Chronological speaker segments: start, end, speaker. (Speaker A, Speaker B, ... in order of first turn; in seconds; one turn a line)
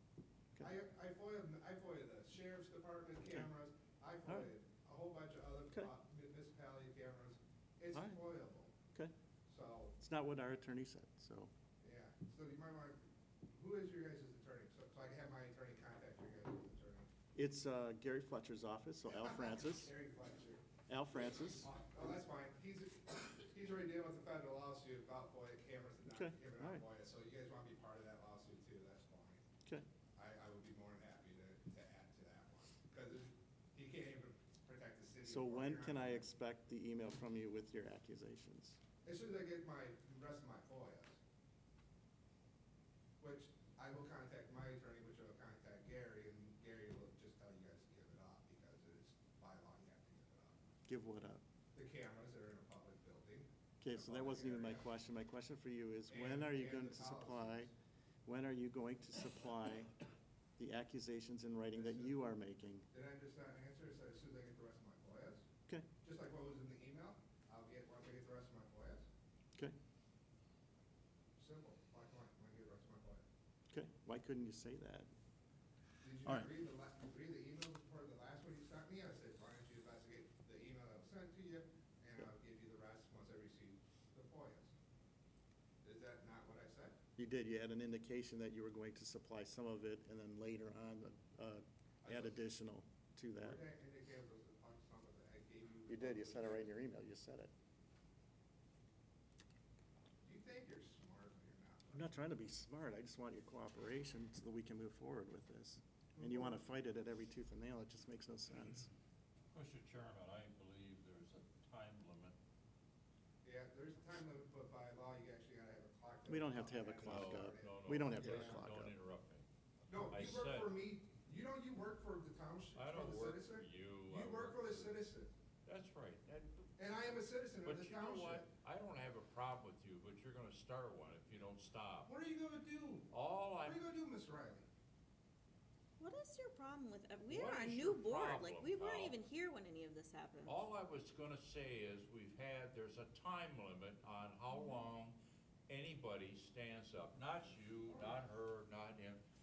Speaker A: 0.6-8.7
Speaker B: 7.9-8.2
Speaker A: 9.5-9.9
Speaker B: 10.0-11.5
Speaker A: 11.8-17.1
Speaker B: 17.3-19.9
Speaker A: 19.1-29.4
Speaker B: 20.9-21.7
Speaker B: 26.1-26.8
Speaker A: 30.1-36.3
Speaker B: 35.2-38.8
Speaker A: 39.0-41.2
Speaker A: 43.2-50.7
Speaker B: 50.9-51.4
Speaker A: 51.7-54.9
Speaker B: 53.8-57.7
Speaker A: 56.1-57.7
Speaker B: 58.2-59.9
Speaker B: 60.6-62.9
Speaker A: 61.7-62.2
Speaker A: 62.9-65.4
Speaker A: 66.0-69.0
Speaker A: 71.4-73.2
Speaker B: 73.7-75.1
Speaker A: 76.0-84.7
Speaker A: 85.8-87.0
Speaker B: 87.2-93.6
Speaker A: 92.0-92.4
Speaker A: 93.4-96.7
Speaker B: 95.9-97.5
Speaker A: 100.2-102.1
Speaker B: 101.9-108.9
Speaker A: 106.2-106.6
Speaker C: 109.5-112.3
Speaker A: 113.4-118.6
Speaker B: 116.3-118.9
Speaker C: 117.0-119.4
Speaker A: 119.9-125.3
Speaker C: 120.1-120.8
Speaker C: 122.7-124.9
Speaker C: 125.6-126.7
Speaker A: 126.8-128.5
Speaker C: 127.6-132.1
Speaker A: 132.0-133.1
Speaker C: 133.1-133.8
Speaker A: 133.6-134.7
Speaker D: 136.0-140.6
Speaker C: 137.3-139.2
Speaker C: 140.4-145.2
Speaker C: 145.7-149.2
Speaker A: 147.9-148.2